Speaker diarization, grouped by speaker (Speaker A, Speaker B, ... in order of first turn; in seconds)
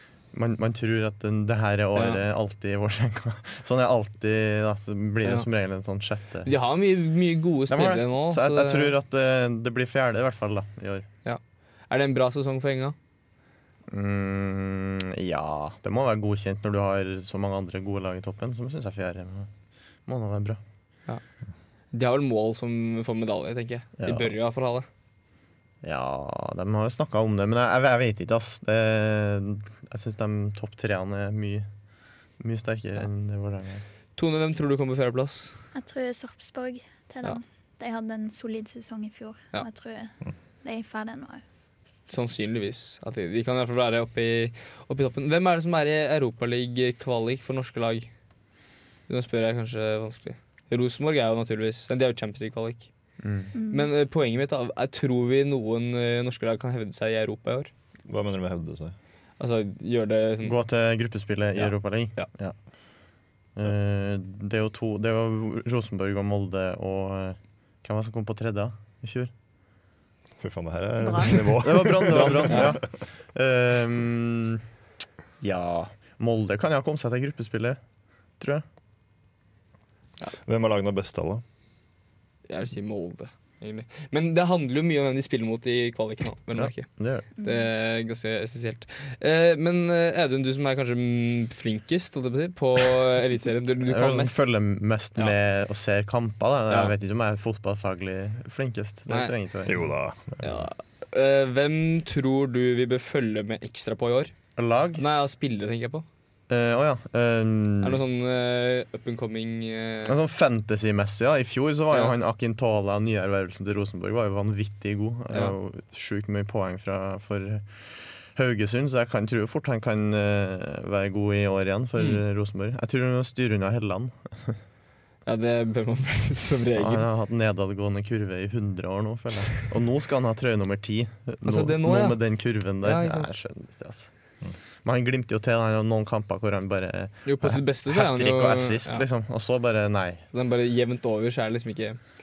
Speaker A: 0.3-6.5, 7.7-11.1, 13.9-19.5, 20.1-20.6, 24.0-24.3, 25.8-31.7, 32.4-33.8, 53.2-53.5, 60.4-62.6, 63.6-69.3, 71.3-74.6, 75.4-77.8, 78.4-78.6, 86.5-87.3, 93.8-99.9, 104.6-105.0, 106.5-108.0, 110.1-117.7, 118.3-124.6, 126.8-134.1, 134.8-140.2
Speaker B: 2.0-2.2, 6.5-8.9, 11.2-12.9, 21.9-24.9, 34.2-35.5, 42.1-48.1, 49.1-52.9, 53.7-57.7, 59.4-60.5, 61.6-62.3, 72.1-72.8, 82.5-86.9, 87.4-94.4, 100.4-104.3, 105.0-106.0, 107.8-110.1, 125.3-127.0, 131.4-132.2, 132.8-133.3, 137.2-139.1, 140.3-142.0
Speaker C: 35.7-41.4, 53.5-53.9, 71.0-71.4, 87.4-87.7
Speaker D: 58.1-59.0, 70.4-72.8, 80.4-81.4, 99.7-100.7